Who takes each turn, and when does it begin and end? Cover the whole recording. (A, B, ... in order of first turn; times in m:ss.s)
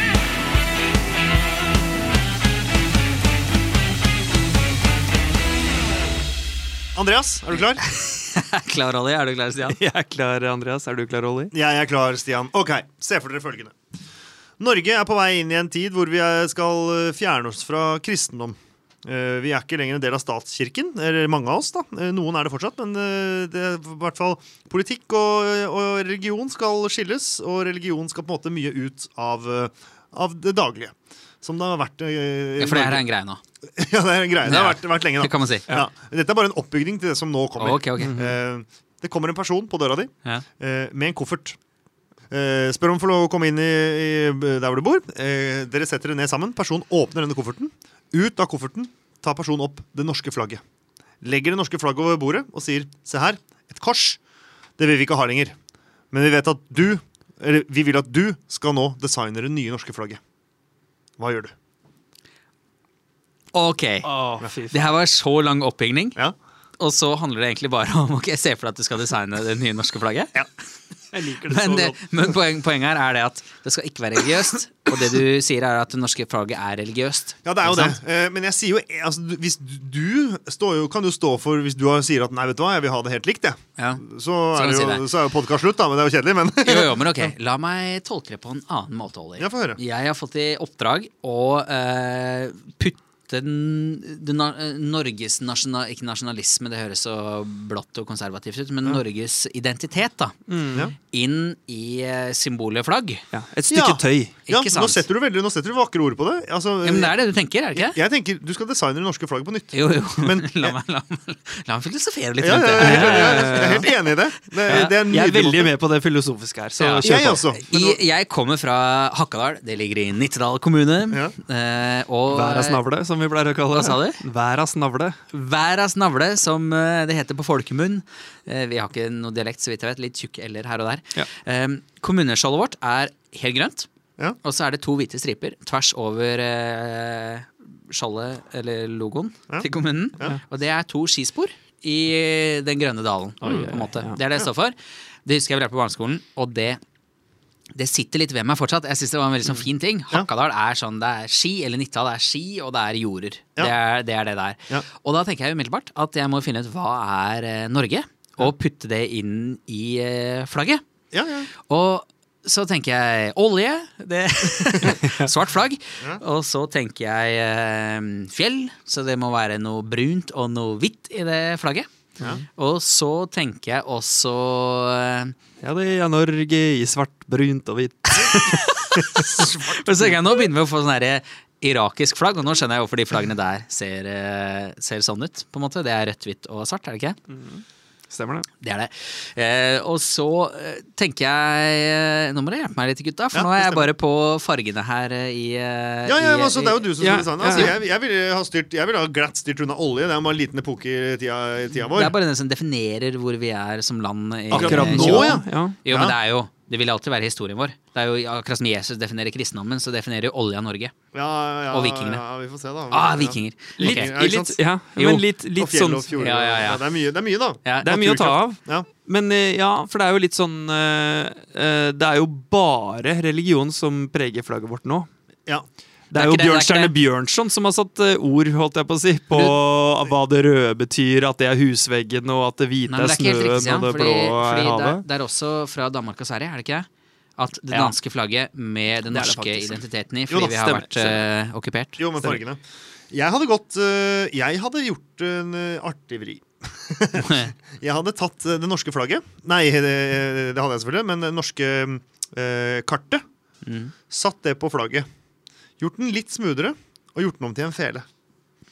0:07.0-0:07.8 A
0:07.9-0:09.8 B
0:09.7-0:11.5 C
0:11.5-0:13.8 A
0:14.6-0:33.0 A
0:32.6-0:33.4 B
0:33.8-0:41.6 A
0:34.4-0:35.7 B
0:37.6-0:38.2 B
0:38.0-0:38.3 C
0:42.3-0:50.6 A
0:51.2-0:54.2 A
0:54.8-0:55.6 A
0:56.1-1:00.2 A
1:01.2-1:01.5 A
1:03.5-1:04.1 B
1:04.0-1:04.9 C
1:04.7-1:06.2 B
1:06.8-1:10.3 B
1:11.1-1:12.0 C
1:11.4-1:18.0 B
1:17.4-1:27.3 A
1:23.8-1:25.1 B
1:26.6-1:40.4 B
1:29.4-1:29.8 A
1:40.5-1:40.9 C
1:41.1-1:43.2 B
1:43.3-1:44.3 C
1:43.7-1:47.2 A
1:44.4-1:45.0 B
1:46.8-1:48.0 B
1:47.7-1:50.8 A
1:49.7-1:53.9 B
1:52.4-1:55.7 A
1:52.8-1:53.8 C
1:54.7-1:57.4 C
1:56.8-2:02.8 B
1:57.0-1:58.0 A
2:02.3-2:05.2 C
2:03.7-2:04.2 B
2:05.3-2:13.9 B
2:14.4-2:26.8 B
2:19.5-2:20.4 A
2:23.4-2:24.2 C
2:27.7-2:40.8 B
2:41.1-2:41.5 A
2:41.7-2:51.9 B
2:52.5-2:55.3 B
2:55.6-2:59.2 C
2:58.2-3:07.2 B
2:59.2-3:00.2 A
3:07.3-3:08.5 C
3:08.6-3:17.7 B
3:13.3-3:13.9 A
3:16.1-3:22.2 A
3:17.0-3:17.8 C
3:21.9-3:30.9 B
3:24.5-3:25.8 C
3:24.5-3:26.2 A
3:31.1-3:38.9 A
3:31.7-3:32.2 B
3:32.9-3:34.2 B
3:33.8-3:36.2 C
3:36.2-3:36.9 B
3:37.6-3:37.9 B
3:37.8-3:45.1 C
3:46.1-3:55.0 C
3:46.1-3:46.9 B
3:52.9-4:02.1 B
3:59.1-4:01.2 C
4:02.0-4:02.6 A
4:03.1-4:13.2 A
4:07.2-4:07.5 B
4:13.6-4:13.9 B
4:14.1-4:15.1 A
4:15.8-4:18.0 A